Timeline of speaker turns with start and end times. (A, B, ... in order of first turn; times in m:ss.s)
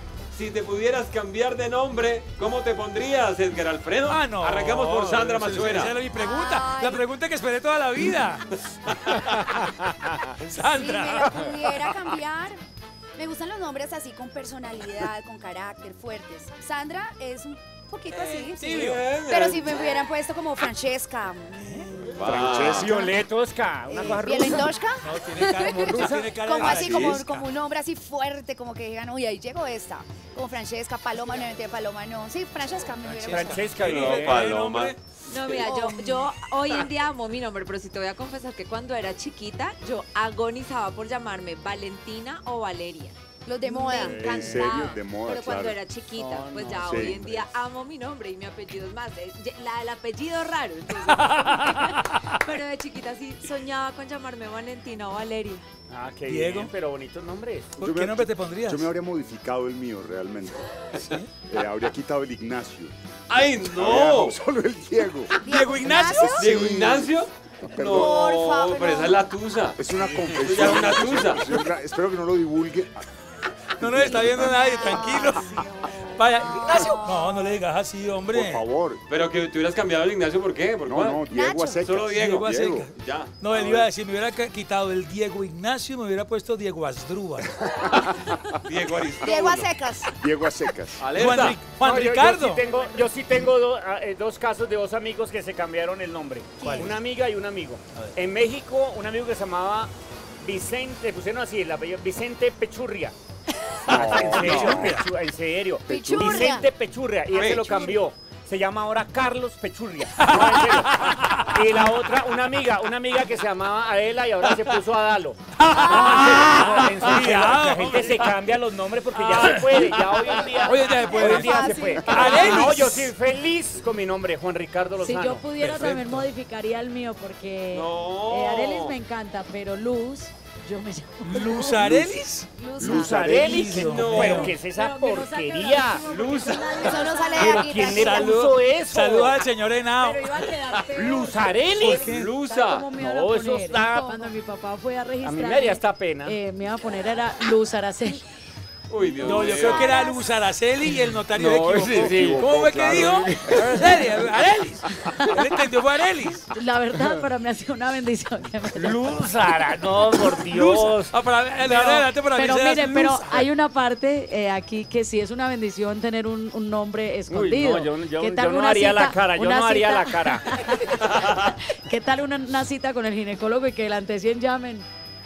0:00.3-0:06.0 A
0:04.1-0:12.2 B
0:06.1-0:07.0 C
0:10.7-0:12.6 C
0:13.2-0:23.2 C
0:18.1-0:19.1 B
0:18.8-0:19.8 A
0:21.6-0:22.3 B
0:22.1-0:22.9 A
0:22.2-0:23.0 D
0:22.6-0:24.8 E
0:23.9-0:33.8 C
0:25.0-0:27.5 B
0:26.6-0:27.2 D
0:33.0-0:35.0 B
0:33.3-0:34.5 E
0:33.8-0:34.9 A
0:35.3-0:43.2 F
0:35.6-0:36.3 C
0:43.4-0:44.8 C
0:43.7-0:55.7 F
0:44.0-0:44.7 E
0:44.0-0:45.8 D
0:46.1-0:47.5 E
0:46.8-0:47.2 D
0:51.1-0:52.3 B
0:55.9-0:57.8 E
0:56.2-0:56.7 B
0:57.8-0:58.9 B
0:57.8-1:00.8 D
1:01.0-1:01.3 B
1:01.4-1:02.9 D
1:03.3-1:04.4 A
1:03.6-1:08.2 D
1:05.4-1:06.5 B
1:05.4-1:06.5 C
1:06.4-1:09.8 A
1:07.9-1:09.2 C
1:09.8-1:13.0 D
1:10.4-1:11.5 A
1:13.8-1:18.6 B
1:13.8-1:14.5 D
1:14.0-1:17.5 C
1:16.6-1:16.9 D
1:18.3-1:19.0 D
1:19.1-1:21.2 A
1:20.9-1:22.9 D
1:21.3-1:21.9 C
1:21.8-1:23.8 A
1:22.2-1:27.5 B
1:27.5-1:28.4 D
1:28.7-1:29.7 A
1:29.2-1:30.1 C
1:30.1-1:31.0 D
1:31.0-1:31.6 A
1:31.1-1:32.6 B
1:31.7-1:43.2 E
1:36.6-1:36.9 C
1:36.6-1:37.0 B
1:43.9-1:44.9 D
1:43.9-1:45.1 B
1:43.9-2:05.9 E
1:45.9-1:46.6 D
1:45.9-1:46.7 C
1:47.3-1:47.7 A
1:50.2-1:51.6 B
1:55.6-1:58.3 B
1:59.1-2:03.1 B
2:00.9-2:02.7 C
2:05.0-2:11.9 G
2:05.6-2:06.3 B
2:07.7-2:09.0 A
2:11.3-2:14.6 B
2:11.7-2:12.2 D
2:12.6-2:13.2 C
2:12.8-2:13.8 D
2:12.9-2:16.1 E
2:13.8-2:14.3 A
2:14.2-2:18.2 G
2:16.1-2:17.1 A
2:16.8-2:18.4 C
2:17.4-2:19.4 E
2:17.9-2:20.3 B
2:20.0-2:28.2 G
2:20.9-2:22.1 E
2:21.7-2:22.3 B
2:22.0-2:22.9 A
2:22.9-2:24.3 E
2:23.8-2:24.2 C
2:25.2-2:26.4 E
2:28.9-2:29.9 A
2:29.2-2:36.5 B
2:29.3-2:29.9 E
2:29.7-2:30.3 G
2:31.4-2:32.4 E
2:31.4-2:33.8 D
2:33.5-2:33.9 E
2:35.1-2:35.4 G
2:36.5-2:39.1 G
2:38.7-2:41.1 E
2:40.4-2:43.5 B
2:41.6-2:54.9 G
2:47.3-2:50.5 E